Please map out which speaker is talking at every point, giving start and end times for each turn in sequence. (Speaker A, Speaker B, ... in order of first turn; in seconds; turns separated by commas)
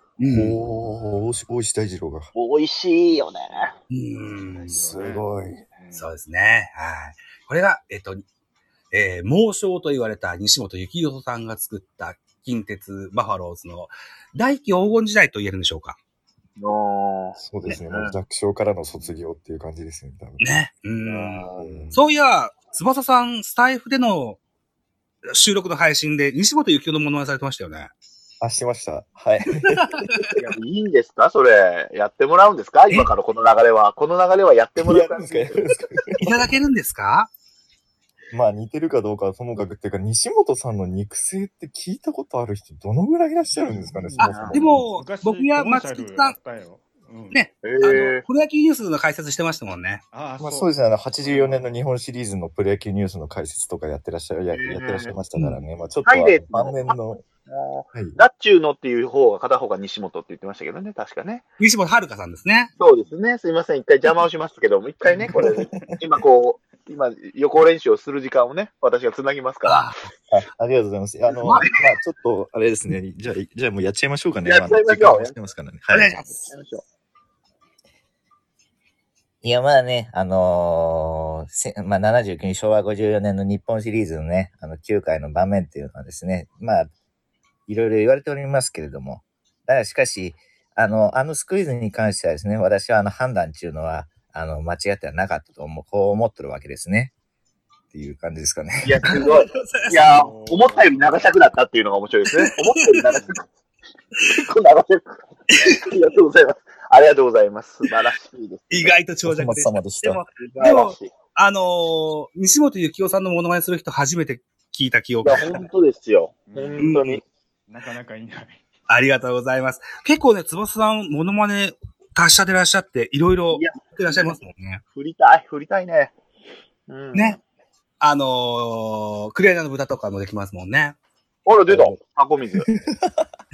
Speaker A: 0.2-0.6, Speaker B: 0.2-2.3, Speaker C: 2.3-3.7, Speaker A: 3.9-4.7, Speaker D: 4.2-6.1, Speaker B: 4.7-5.6, Speaker A: 5.9-8.2, Speaker A: 8.9-16.0, Speaker C: 16.6-18.1, Speaker B: 17.4-20.4, Speaker A: 20.4-24.4, Speaker C: 21.0-21.9, Speaker B: 21.6-22.0, Speaker A: 25.2-27.9, Speaker B: 28.4-29.9, Speaker A: 29.6-30.3, Speaker C: 30.3-35.7, Speaker B: 34.8-36.5, Speaker A: 36.2-37.3, Speaker B: 38.3-44.8, Speaker C: 44.1-44.6, Speaker A: 44.5-46.3, Speaker D: 44.9-47.4, Speaker A: 47.3-50.0, Speaker C: 47.6-48.2, Speaker D: 50.1-51.8, Speaker B: 50.4-57.2, Speaker C: 54.5-55.1, Speaker C: 56.0-56.9, Speaker C: 57.5-61.4, Speaker A: 61.6-62.7, Speaker C: 62.8-69.9, Speaker D: 65.2-65.8, Speaker B: 65.4-65.8, Speaker A: 69.7-70.0, Speaker B: 70.3-76.2, Speaker C: 71.3-71.7, Speaker C: 74.4-75.3, Speaker A: 75.9-76.3, Speaker C: 76.2-76.8, Speaker E: 79.4-86.9, Speaker E: 87.7-97.1, Speaker E: 97.9-99.1, Speaker C: 98.8-103.5, Speaker A: 99.1-100.2, Speaker D: 99.7-101.3, Speaker A: 102.3-103.1, Speaker C: 104.2-109.0, Speaker A: 105.5-105.9, Speaker A: 108.7-115.7, Speaker B: 109.2-110.2, Speaker C: 110.4-111.1, Speaker C: 115.2-117.2, Speaker D: 116.5-117.0, Speaker A: 116.8-117.2, Speaker D: 117.7-118.7, Speaker A: 118.9-124.8, Speaker C: 123.5-124.3, Speaker C: 124.9-126.1, Speaker C: 126.9-127.4, Speaker A: 127.1-127.4, Speaker A: 128.0-130.9, Speaker C: 131.4-132.7, Speaker B: 132.7-133.2